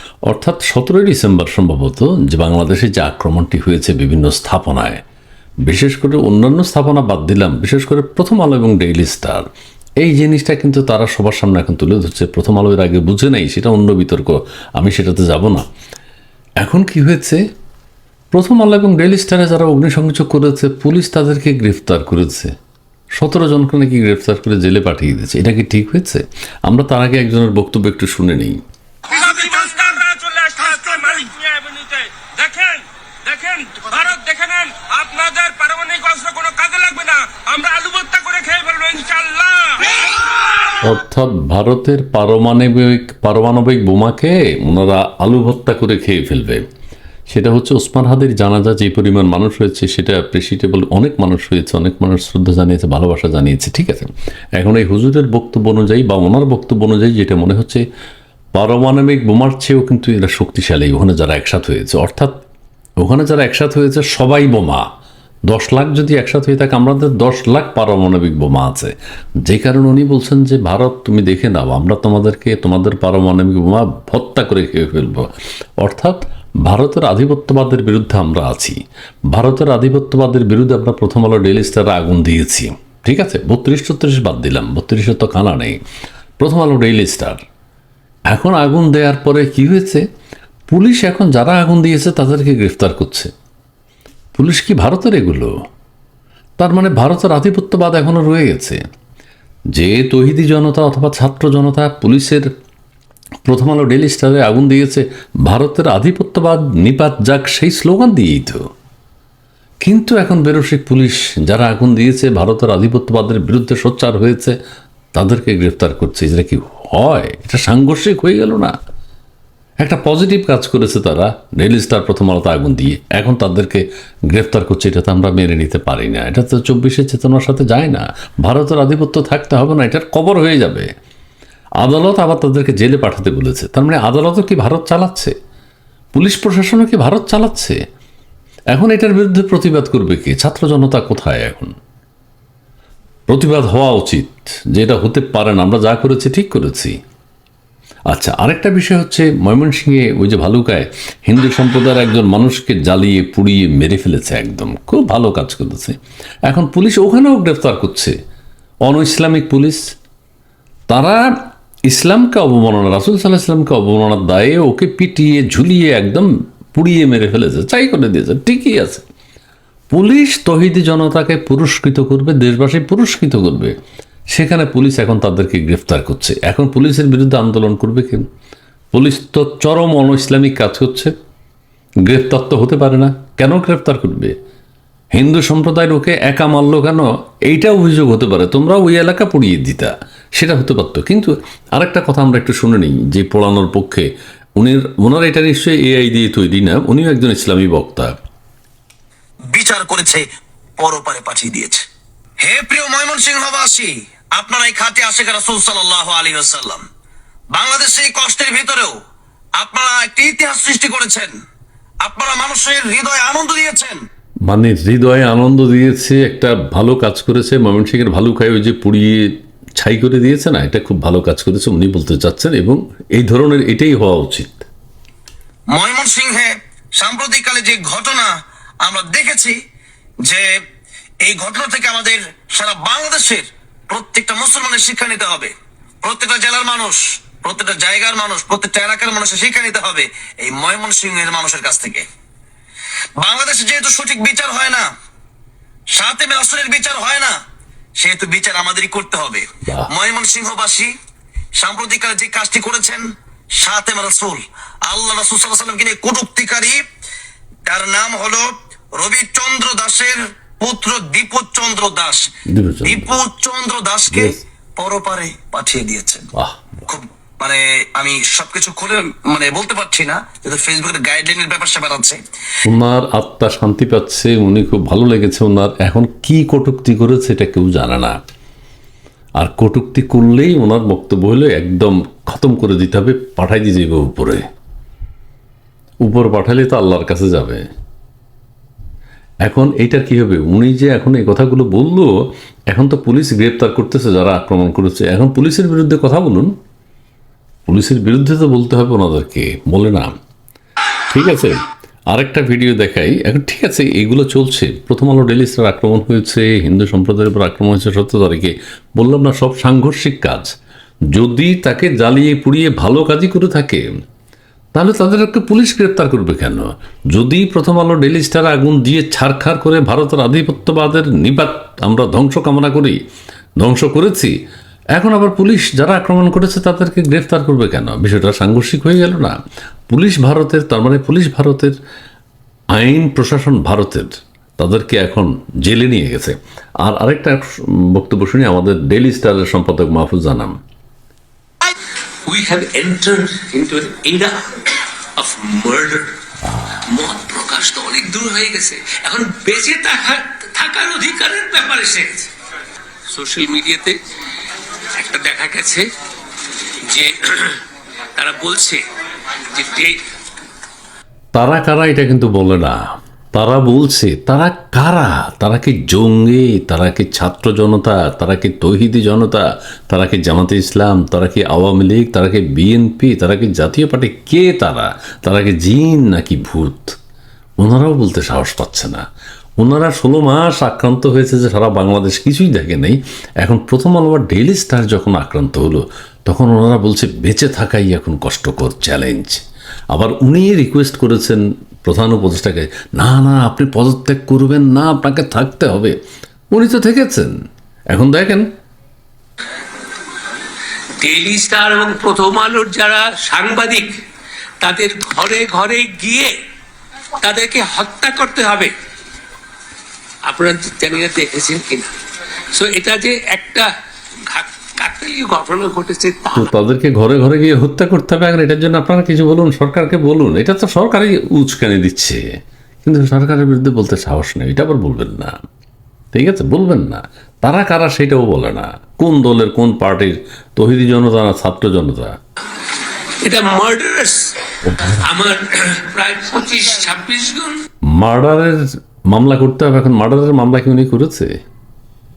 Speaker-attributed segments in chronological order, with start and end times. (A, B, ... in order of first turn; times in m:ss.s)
0:00.3-0:05.0 A
0:05.6-0:09.5 A
0:10.0-0:15.6 A
0:16.6-0:17.4 A
0:18.3-0:22.5 A
0:23.2-0:28.6 A
0:29.1-0:39.9 B
0:40.8-0:46.6 A
0:47.3-0:57.8 A
0:58.5-1:02.4 A
1:03.0-1:04.8 A
1:05.5-1:18.8 A
1:19.3-1:25.8 A
1:26.4-1:27.4 A
1:28.3-1:30.0 A
1:30.7-1:33.3 A
1:34.4-1:35.5 A
1:36.6-1:38.8 A
1:39.7-1:42.5 A
1:43.4-1:48.6 A
1:49.8-1:54.6 A
1:55.1-1:58.7 A
1:59.8-2:10.9 A
2:11.8-2:15.3 A
2:16.1-2:17.8 A
2:18.7-2:21.7 A
2:23.3-2:27.0 A
2:28.1-2:38.2 A
2:38.8-2:39.8 A
2:40.9-2:41.3 A
2:41.9-2:49.0 A
2:49.9-2:53.7 A
2:54.3-2:58.3 A
2:58.9-3:01.1 A
3:02.0-3:04.3 A
3:05.1-3:18.1 A
3:19.5-3:20.2 C
3:20.8-3:21.8 C
3:22.4-3:26.8 C
3:27.5-3:28.9 C
3:29.6-3:31.3 C
3:32.0-3:34.0 C
3:34.5-3:44.7 A
3:45.7-3:48.3 C
3:48.8-3:49.6 C
3:51.2-3:55.5 C
3:56.0-4:02.0 C
4:03.2-4:04.9 C
4:05.9-4:07.3 C
4:08.0-4:10.9 C
4:11.6-4:16.8 C
4:17.6-4:22.3 C
4:22.5-4:23.2 A
4:22.8-4:26.3 C
4:24.1-4:24.4 A
4:26.3-4:26.8 A
4:26.9-4:32.2 C
4:32.6-4:38.2 A
4:39.4-4:44.4 A
4:46.0-4:47.6 A
4:49.4-4:52.1 A
4:52.7-4:56.5 A
4:57.7-5:00.1 A
5:01.1-5:10.5 A
5:11.1-5:13.9 A
5:14.7-5:23.0 A
5:23.6-5:24.4 A
5:24.9-5:29.4 A
5:29.9-5:31.8 A
5:32.7-5:40.6 A
5:42.3-5:44.4 D
5:45.2-5:46.1 D
5:46.8-5:52.3 D
5:53.1-5:54.0 D
5:55.0-5:55.8 D
5:56.9-5:57.6 D
5:58.2-5:58.8 D
5:59.5-5:59.9 D
6:01.3-6:02.8 A
6:03.3-6:17.0 A
6:17.6-6:19.0 A
6:19.6-6:36.0 A
6:36.5-6:37.4 A
6:37.9-6:38.5 A
6:41.0-6:43.9 D
6:44.6-6:46.3 D
6:47.2-6:48.7 D
6:50.2-6:51.9 D
6:52.5-6:53.7 D
6:54.2-6:56.5 D
6:56.3-7:02.2 A
7:02.8-7:05.4 A
7:06.1-7:12.1 A
7:13.2-7:17.6 D
7:14.6-7:15.0 A
7:17.9-7:21.3 A